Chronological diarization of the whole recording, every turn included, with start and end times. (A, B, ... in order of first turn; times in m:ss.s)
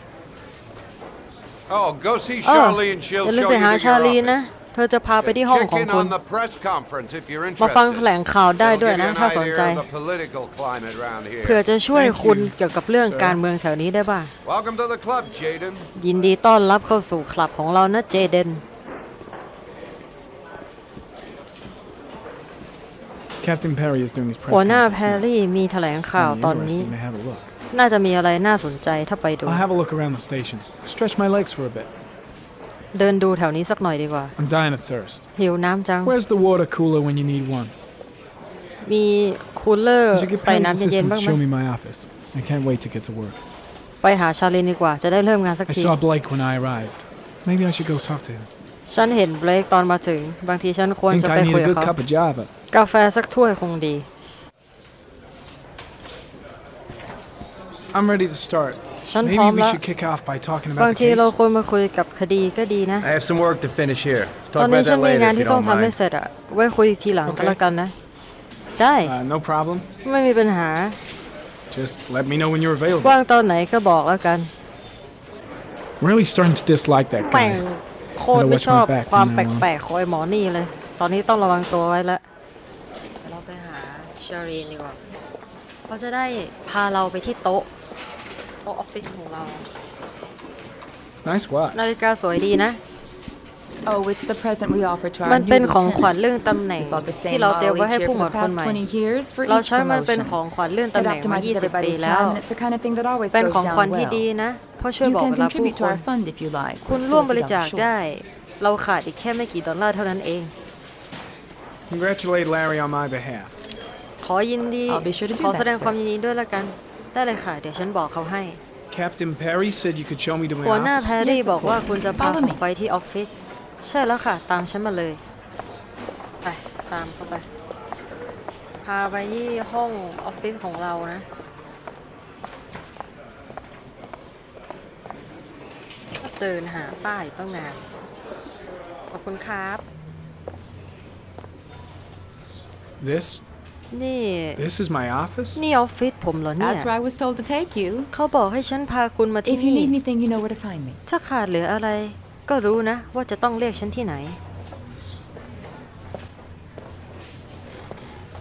0:01.7-0:04.5 A
0:02.4-0:06.2 B
0:05.2-0:11.7 A
0:07.6-0:09.8 B
0:11.4-0:14.3 B
0:11.9-0:13.4 C
0:14.4-0:15.9 A
0:16.0-0:18.6 B
0:23.4-0:25.2 C
0:24.5-0:26.9 B
0:26.1-0:27.5 C
0:27.7-0:29.6 B
0:29.4-0:31.9 C
0:32.9-0:34.3 B
0:34.4-0:35.3 C
0:35.3-0:36.2 B
0:36.0-0:37.7 C
0:38.8-0:41.4 B
0:40.1-0:43.4 C
0:44.0-0:45.9 B
0:45.7-0:48.5 C
0:48.8-0:51.9 B
0:51.1-0:52.5 C
0:52.7-0:54.1 B
0:57.9-1:01.3 C
0:59.0-0:59.8 B
1:00.8-1:03.1 B
1:03.0-1:06.0 D
1:04.6-1:07.9 B
1:07.2-1:07.6 C
1:08.8-1:09.1 B
1:09.0-1:09.9 C
1:10.0-1:11.0 B
1:11.7-1:13.2 C
1:13.0-1:14.5 B
1:16.0-1:17.6 C
1:17.2-1:22.2 B
1:18.3-1:19.7 C
1:23.2-1:25.0 B
1:25.9-1:27.7 B
1:28.6-1:29.7 B
1:31.2-1:31.8 C
1:31.7-1:32.8 B
1:33.8-1:40.4 E
1:35.2-1:38.8 B
1:39.4-1:42.4 B
1:40.9-1:44.3 E
1:43.3-1:46.1 B
1:45.0-1:47.9 E
1:46.8-1:50.5 B
1:51.9-1:53.6 C
1:54.2-1:58.6 B
1:54.9-1:56.0 E
1:58.9-2:01.2 C
2:00.6-2:05.2 B
2:01.2-2:02.6 E
2:06.4-2:07.5 B
2:08.8-2:11.2 B
2:16.2-2:17.8 B
2:19.1-2:19.8 B
2:23.0-2:23.4 C
2:23.9-2:24.6 B
2:24.6-2:25.6 C
2:25.6-2:26.9 B
2:26.6-2:28.1 E
2:28.1-2:29.9 B
2:29.4-2:31.0 E
2:31.1-2:34.4 B